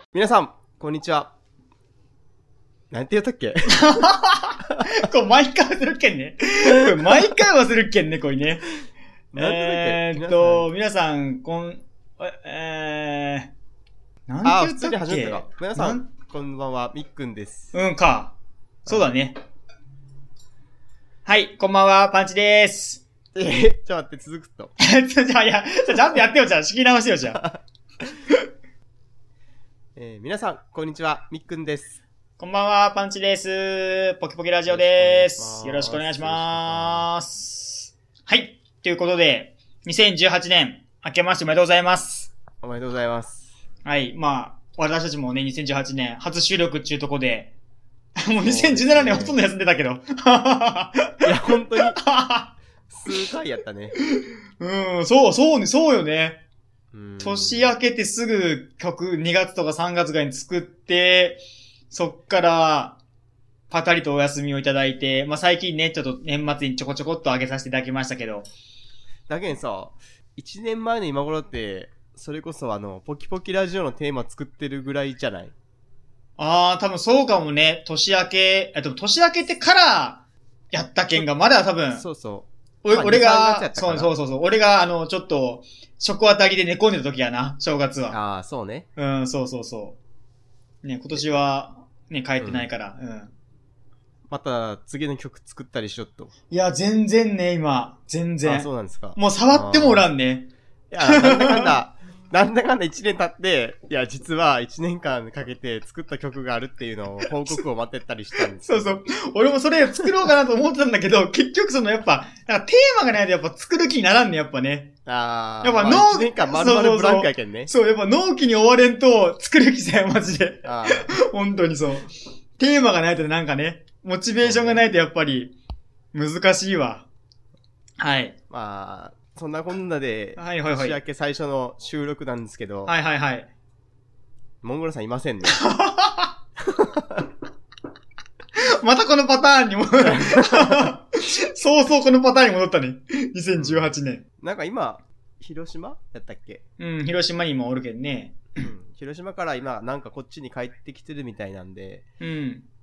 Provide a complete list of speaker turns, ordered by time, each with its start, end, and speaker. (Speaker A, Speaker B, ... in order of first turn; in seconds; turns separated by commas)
Speaker A: 0.1-1.3, Speaker A: 2.9-3.8, Speaker B: 3.7-8.7, Speaker A: 9.3-10.7, Speaker B: 9.4-13.5, Speaker B: 14.3-16.1, Speaker A: 14.4-17.7, Speaker B: 17.7-18.4, Speaker B: 18.9-19.4, Speaker B: 21.2-23.0, Speaker A: 23.3-24.7, Speaker B: 24.8-27.4, Speaker A: 27.3-27.6, Speaker A: 30.0-32.0, Speaker B: 32.4-42.3, Speaker A: 34.7-37.1, Speaker A: 42.6-43.5, Speaker B: 43.9-47.5, Speaker B: 48.2-51.3, Speaker A: 48.4-49.4, Speaker A: 51.2-52.0, Speaker B: 51.8-52.5, Speaker A: 52.9-54.0, Speaker B: 54.0-56.4, Speaker A: 56.9-57.7, Speaker B: 57.2-63.0, Speaker B: 63.7-68.5, Speaker A: 69.3-75.5, Speaker B: 76.4-82.0, Speaker A: 81.9-84.1, Speaker B: 82.8-88.2, Speaker A: 88.1-88.9, Speaker B: 89.0-90.0, Speaker B: 90.8-93.3, Speaker A: 92.4-92.7, Speaker A: 94.3-96.3, Speaker B: 96.5-100.5, Speaker A: 98.4-100.1, Speaker A: 100.9-109.0, Speaker B: 101.0-101.8, Speaker B: 108.6-114.9, Speaker A: 115.1-117.7, Speaker B: 115.6-125.5, Speaker A: 120.6-121.2, Speaker A: 124.4-124.8, Speaker B: 126.1-127.1, Speaker B: 128.0-128.3, Speaker A: 128.5-132.9, Speaker B: 130.4-131.0, Speaker B: 132.9-133.5, Speaker A: 134.6-135.6, Speaker B: 135.5-136.3, Speaker A: 136.6-137.3, Speaker B: 138.6-144.2, Speaker A: 140.0-140.9, Speaker A: 143.6-146.6, Speaker B: 146.8-148.5, Speaker A: 148.6-152.1, Speaker B: 152.2-152.7